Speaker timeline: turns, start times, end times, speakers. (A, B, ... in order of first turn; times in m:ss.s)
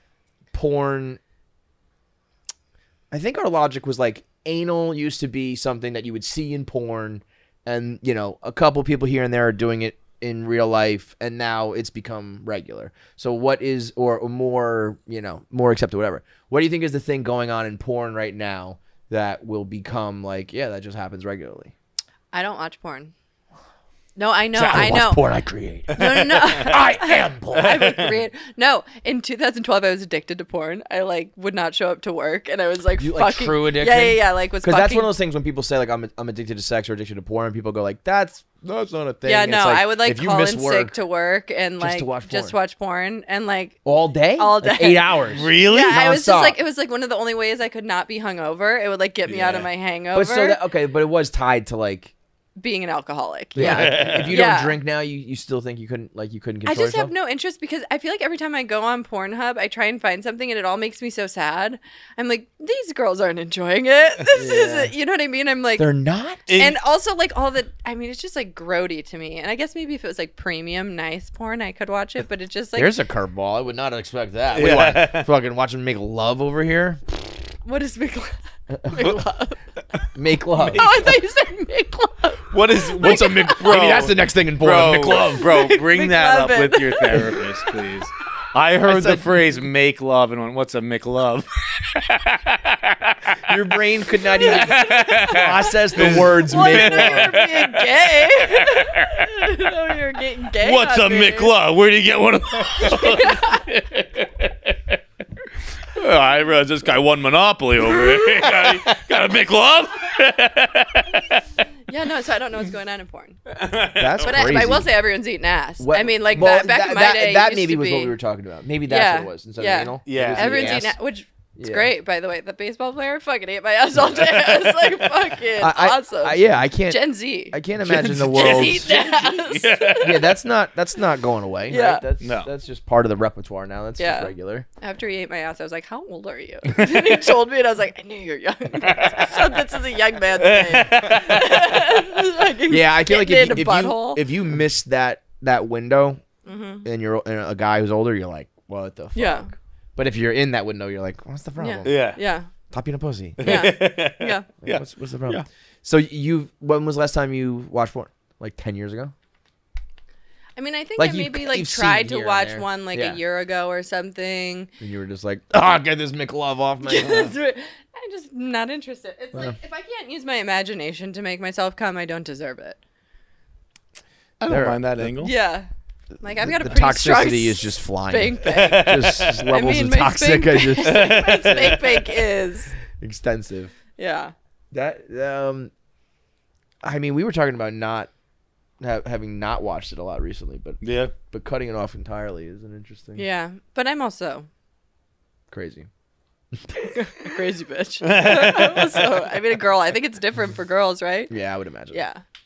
0:00.5-0:01.2 A
0:03.1-0:21.7 A
0:22.3-0:23.1 B
0:24.2-0:25.2 B
0:24.5-0:28.0 A
0:25.8-0:35.1 B
0:33.0-0:41.0 A
0:39.2-0:50.6 B
0:41.8-0:42.5 A
0:43.8-0:46.6 A
0:45.3-0:46.0 C
0:49.2-0:49.7 C
0:50.1-0:52.1 A
0:52.6-0:54.8 B
0:53.6-0:54.4 C
0:53.6-0:57.1 A
0:56.6-1:05.8 B
1:04.4-1:04.9 A
1:05.8-1:06.4 A
1:06.5-1:06.8 C
1:06.5-1:12.9 B
1:12.7-1:17.0 A
1:14.5-1:15.3 C
1:17.6-1:19.6 B
1:20.1-1:21.0 A
1:20.6-1:23.9 B
1:20.7-1:21.1 C
1:22.5-1:39.3 C
1:23.0-1:25.4 A
1:25.1-1:27.8 B
1:28.8-1:29.3 A
1:33.4-1:37.3 A
1:34.5-1:41.6 B
1:40.6-1:44.7 C
1:42.8-1:43.6 B
1:45.9-1:51.4 C
1:51.9-1:53.4 B
1:53.5-1:54.7 C
1:53.9-1:54.9 A
1:54.2-1:58.2 B
1:55.8-2:01.0 A
1:58.8-2:10.2 B
2:00.0-2:00.8 C
2:01.6-2:01.9 A
2:05.6-2:08.9 A
2:07.8-2:10.3 C
2:10.0-2:14.6 A
2:11.7-2:12.0 B
2:12.2-2:12.5 C
2:14.0-2:24.2 B
2:18.8-2:19.2 C
2:20.4-2:21.7 C
2:22.7-2:26.2 A
2:26.4-2:26.8 B
2:26.8-2:32.1 A
2:29.1-2:29.5 B
2:31.6-2:32.5 B
2:31.8-2:32.2 C
2:32.7-2:33.7 A
2:33.4-2:35.4 C
2:33.4-2:34.5 B
2:34.6-2:39.1 A
2:40.6-2:44.7 B
2:41.0-2:43.2 A
2:44.8-2:47.3 A
2:46.8-2:52.8 B
2:54.4-2:55.3 C
2:54.5-2:55.2 A
2:55.2-2:55.7 B
2:56.2-3:02.7 B
2:56.4-3:01.8 A
2:58.4-2:59.5 C
3:00.8-3:02.1 C
3:02.9-3:03.7 A
3:04.0-3:04.3 B
3:04.7-3:05.7 A
3:06.8-3:08.1 A
3:08.8-3:13.2 A
3:10.8-3:11.1 C
3:13.2-3:14.5 B
3:15.5-3:15.9 A
3:16.9-3:21.3 B
3:18.0-3:19.1 C
3:21.3-3:22.0 A
3:21.9-3:22.2 B